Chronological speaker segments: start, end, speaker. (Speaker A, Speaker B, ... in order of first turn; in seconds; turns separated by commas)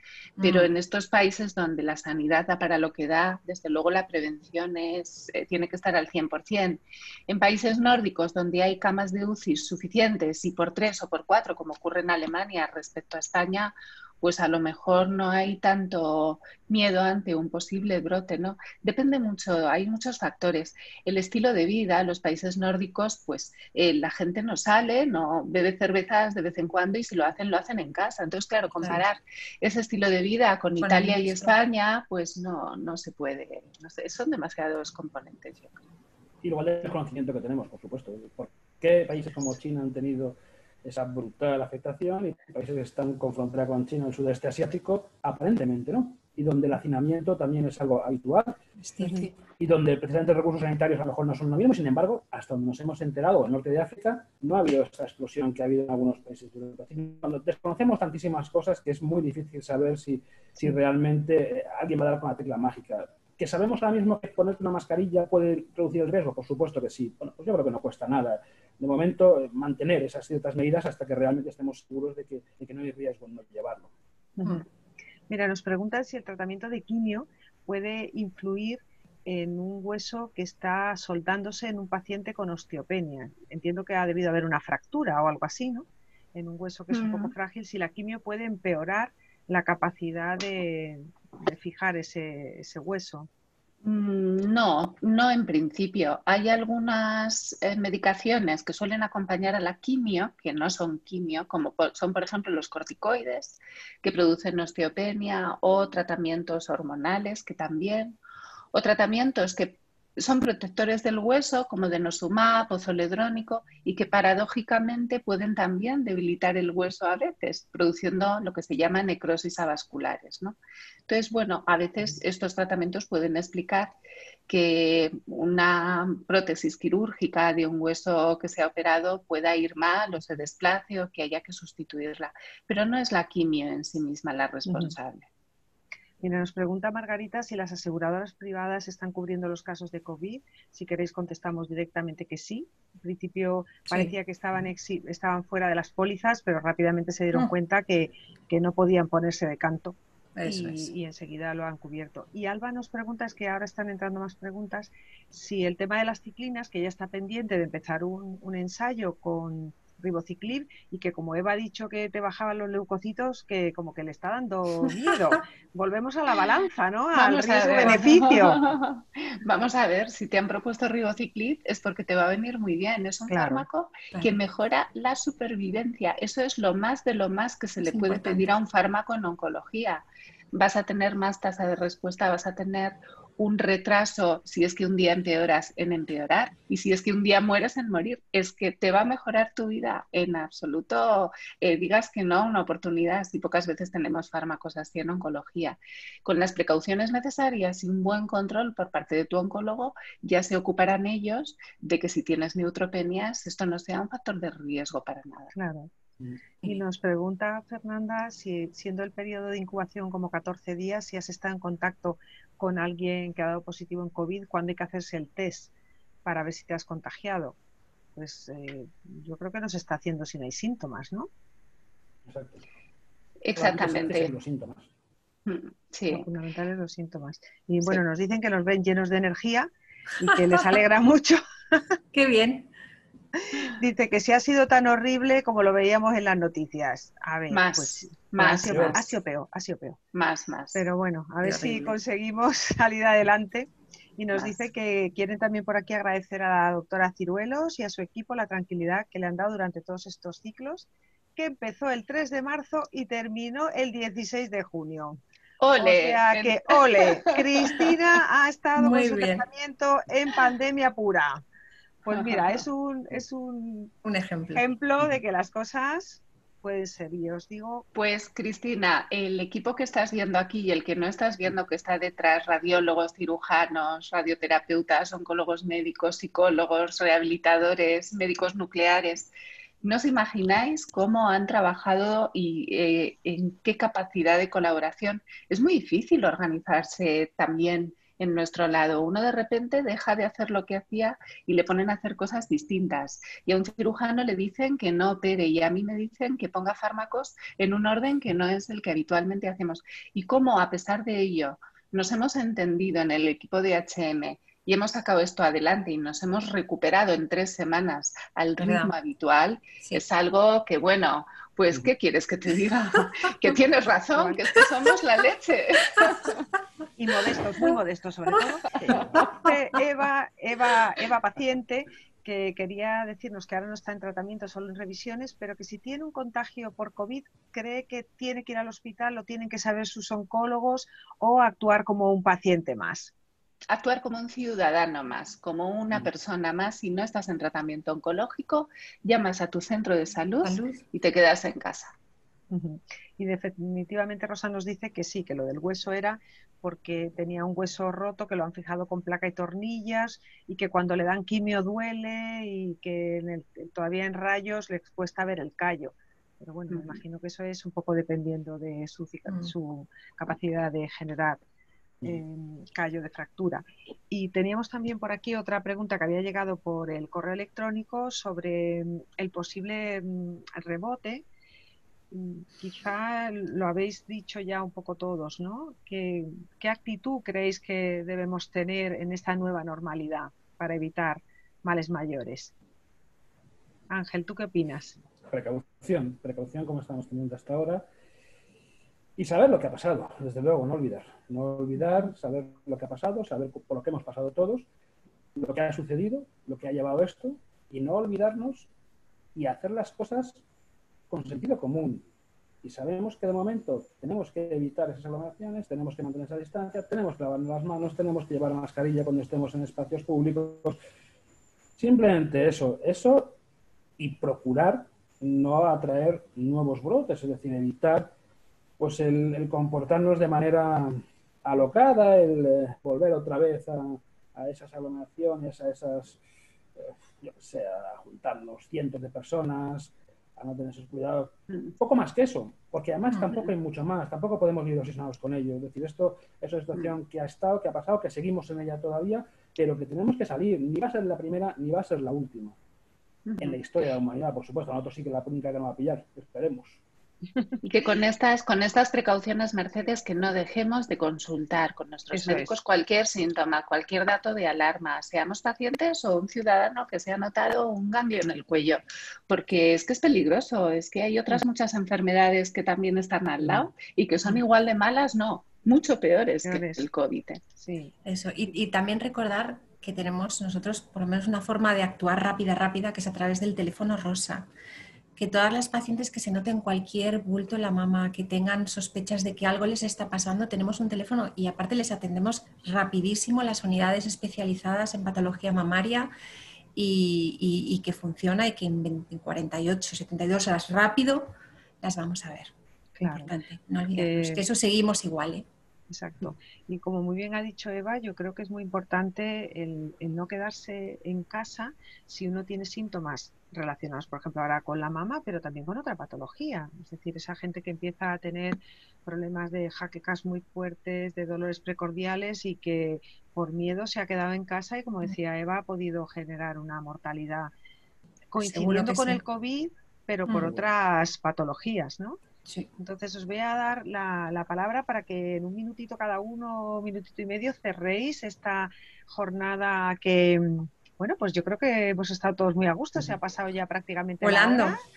Speaker A: 0.4-0.7, Speaker B: 0.4-35.8, Speaker A: 30.8-31.5, Speaker C: 36.4-48.6, Speaker A: 48.8-49.4, Speaker D: 49.0-49.3, Speaker C: 49.6-73.9, Speaker D: 74.4-74.6, Speaker D: 75.3-93.3, Speaker B: 86.9-87.3, Speaker B: 93.8-108.2, Speaker B: 108.7-123.9, Speaker B: 124.5-135.3, Speaker D: 134.7-134.9, Speaker D: 136.2-168.6, Speaker A: 150.3-150.9, Speaker B: 167.1-205.5, Speaker D: 173.3-173.7, Speaker A: 177.8-178.5, Speaker D: 205.5-205.9, Speaker D: 206.6-215.7, Speaker D: 216.2-217.6, Speaker D: 218.1-221.3, Speaker C: 222.3-222.6, Speaker B: 223.4-224.3, Speaker C: 223.6-224.9, Speaker B: 225.4-226.3, Speaker D: 226.1-231.4, Speaker A: 232.1-232.7, Speaker D: 233.5-240.0, Speaker B: 237.5-239.1, Speaker C: 238.7-239.0, Speaker B: 240.1-240.8, Speaker D: 240.7-255.2, Speaker A: 241.4-241.9, Speaker B: 244.3-244.6, Speaker B: 255.6-257.9, Speaker D: 255.7-261.4, Speaker A: 258.8-259.4, Speaker D: 262.0-263.9, Speaker A: 264.0-264.7, Speaker D: 264.5-267.9, Speaker B: 267.9-279.3, Speaker B: 279.8-316.4, Speaker A: 308.6-308.9, Speaker D: 314.1-314.5, Speaker D: 317.0-333.1, Speaker B: 333.7-341.9, Speaker A: 340.4-340.8, Speaker D: 342.5-361.4, Speaker A: 359.3-359.5, Speaker D: 362.0-371.2, Speaker D: 372.1-382.5, Speaker D: 383.9-385.0, Speaker C: 385.3-387.9, Speaker C: 389.2-394.7, Speaker C: 395.4-398.7, Speaker C: 399.3-400.4, Speaker C: 401.1-402.0, Speaker C: 402.6-410.8, Speaker C: 411.8-413.4, Speaker C: 414.0-418.1, Speaker C: 418.8-426.2, Speaker C: 426.8-442.6, Speaker B: 443.2-443.6, Speaker C: 443.4-446.8, Speaker B: 447.6-467.4, Speaker D: 452.1-452.5, Speaker D: 466.4-466.9, Speaker D: 467.6-467.9, Speaker A: 468.0-474.5, Speaker A: 475.1-486.1, Speaker A: 486.7-492.5, Speaker D: 493.0-493.3, Speaker A: 493.0-495.4, Speaker D: 493.9-494.4, Speaker D: 495.9-517.5, Speaker D: 518.3-522.2, Speaker A: 518.4-519.2, Speaker A: 520.3-520.5, Speaker D: 522.8-534.8, Speaker A: 534.2-534.8